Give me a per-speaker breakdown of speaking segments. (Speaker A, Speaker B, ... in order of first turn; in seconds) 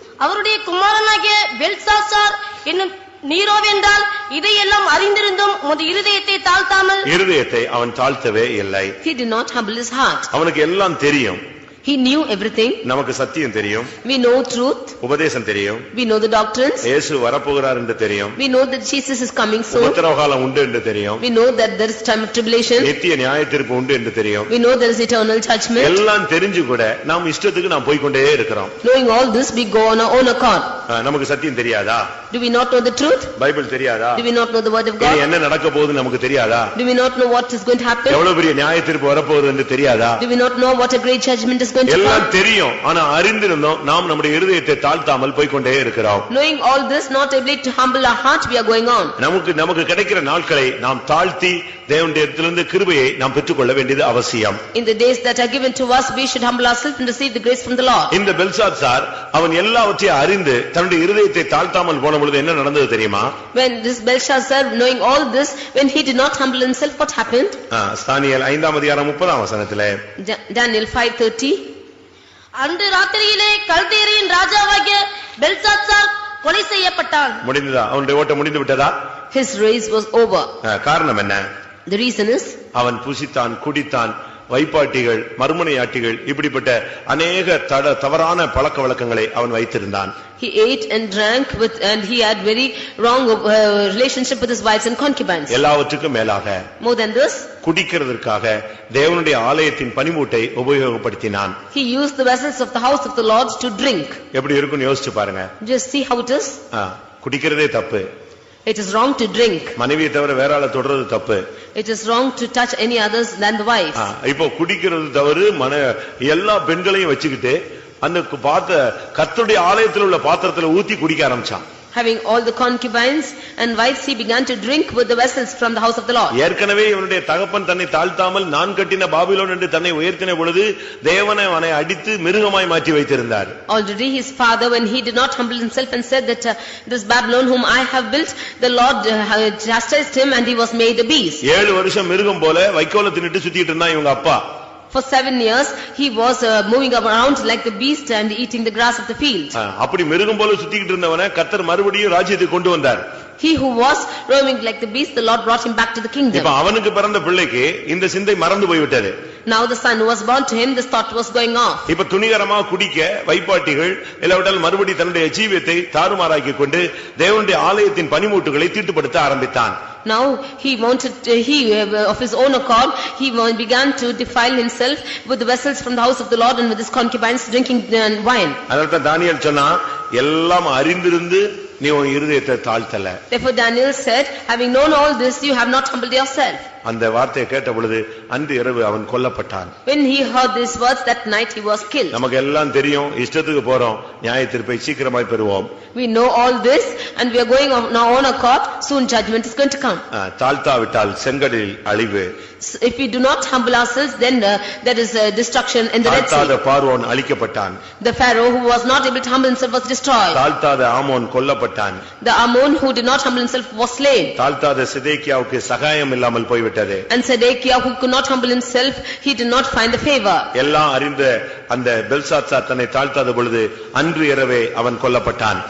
Speaker A: 0.2-7.1, 72.5-77.4
Speaker B: 7.0-8.9, 10.3-11.4, 12.8-13.9, 15.0-15.9, 16.8-18.4, 19.7-21.2, 22.8-24.5, 25.8-28.7, 30.9-32.1, 33.4-34.2, 35.0-36.7, 38.1-40.2, 41.9-46.3, 49.2-54.6, 58.1-63.3, 67.7-70.0, 77.4-78.9, 80.6-81.4, 82.7-90.1, 95.5-96.7, 97.6-101.6, 104.3-105.5, 106.7-108.0, 109.8-111.4, 113.9-121.6, 126.3-133.6, 141.4-144.4, 149.5-153.0, 156.3-159.1, 161.9-169.8, 178.7-183.2, 186.8-189.7, 192.1-195.7, 200.1-202.3, 206.0-207.8, 210.3-212.0, 214.3-217.1, 220.5-225.6
Speaker C: 9.0-10.3, 11.8-12.8, 14.0-15.0, 15.9-16.9, 18.4-20.0, 21.2-22.9, 24.5-26.0, 28.8-30.7, 32.3-33.3, 34.1-35.2, 36.7-38.2, 40.2-42.3, 46.3-49.1, 54.7-58.1, 63.5-67.6, 70.2-71.6, 79.3-80.5, 81.9-82.6, 90.4-95.6, 96.8-97.5, 101.7-104.2, 105.6-106.6, 108.7-109.8, 111.7-114.1, 121.9-126.3, 133.7-141.4, 144.9-149.5, 153.4-156.5, 159.4-161.9, 170.0-178.6, 183.3-186.7, 189.8-192.2, 195.9-200.0, 202.6-206.6, 208.0-210.4, 212.2-214.3, 217.1-220.5